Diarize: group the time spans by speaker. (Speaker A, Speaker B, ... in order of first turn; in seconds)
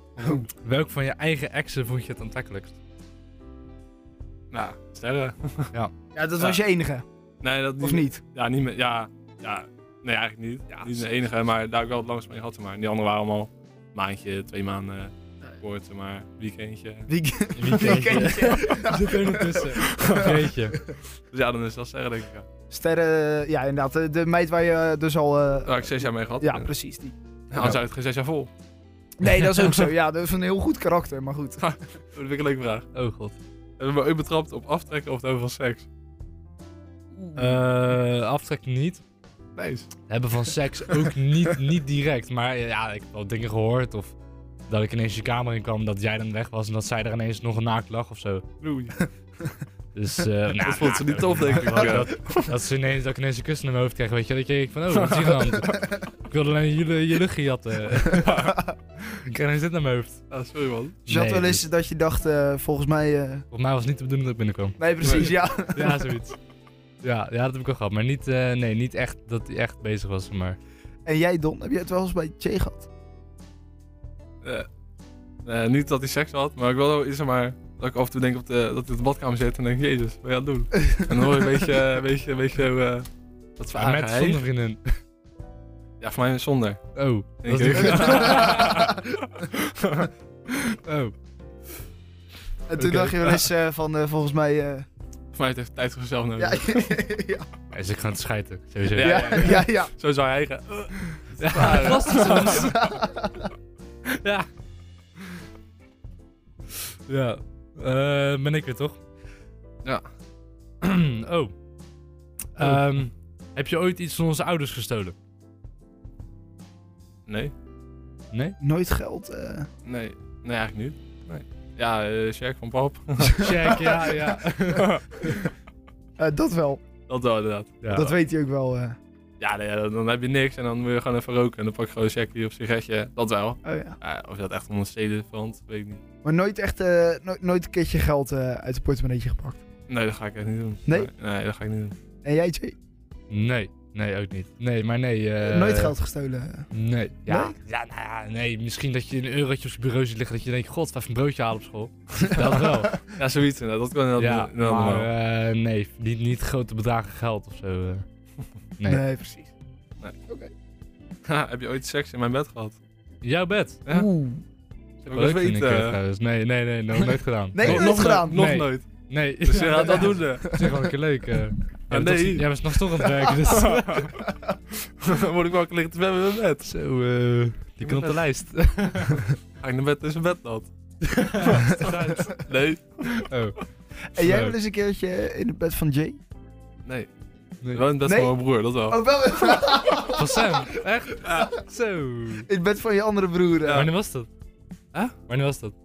Speaker A: 0.2-0.4, 4.5-5.7, 7.4-17.1, 17.6-18.1, 20.0-20.4, 21.3-22.5, 25.6-26.7, 27.5-28.5, 31.6-32.9, 33.8-35.9, 39.5-39.9, 48.6-48.9, 50.6-52.6, 54.9-55.8, 58.2-58.6, 60.3-61.0, 75.4-84.4, 86.0-86.8, 87.4-90.1, 95.3-97.0, 98.9-102.7, 117.3-117.5, 119.8-123.8, 124.7-125.3, 127.1-127.8, 129.4-136.0, 139.9-141.9, 153.1-155.1, 161.3-162.8, 165.0-166.0, 167.6-168.9, 169.4-170.5, 171.9-172.5, 173.4-174.1, 174.7-176.7, 177.8-178.2, 179.6-180.7, 181.4-183.2, 187.7-189.0
Speaker B: 0.3-2.8, 17.6-20.8, 27.5-27.8, 32.9-33.4, 37.4-39.0, 40.1-44.1, 44.7-48.7, 49.9-60.2, 61.1-61.6, 63.5-66.4, 67.0-70.6, 83.7-84.8, 86.9-88.9, 90.5-91.1, 92.8-93.3, 97.7-99.6, 101.4-103.0, 104.0-104.5, 107.1-109.0, 110.8-111.5, 112.5-115.1, 118.3-118.6, 123.3-125.3, 127.8-128.2, 143.3-145.9, 146.7-153.0, 154.1-158.0, 158.8-159.0, 163.2-163.8, 165.1-174.1, 176.6-179.3, 181.1-182.3, 183.0-183.6, 184.2-184.6, 190.1-192.5, 193.7-194.3, 195.2-195.7
Speaker C: 6.1-7.0, 7.8-8.2, 10.7-11.1, 17.1-20.8, 22.7-27.1, 29.2-31.7, 37.2-37.6, 61.0-63.5, 64.8-66.1, 71.0-72.9, 80.8-81.1, 88.0-89.0, 92.7-94.9, 96.4-97.5, 99.0-99.9, 102.2-103.5, 118.6-119.7, 123.6-124.1, 126.2-126.8, 127.9-129.0, 133.6-134.0, 136.2-139.6, 140.8-141.1, 142.2-142.7, 145.4-146.7, 147.2-147.6, 158.9-159.5, 163.9-164.4, 167.5-168.4, 169.5-170.8, 184.1-186.2, 188.0-190.7, 192.5-193.9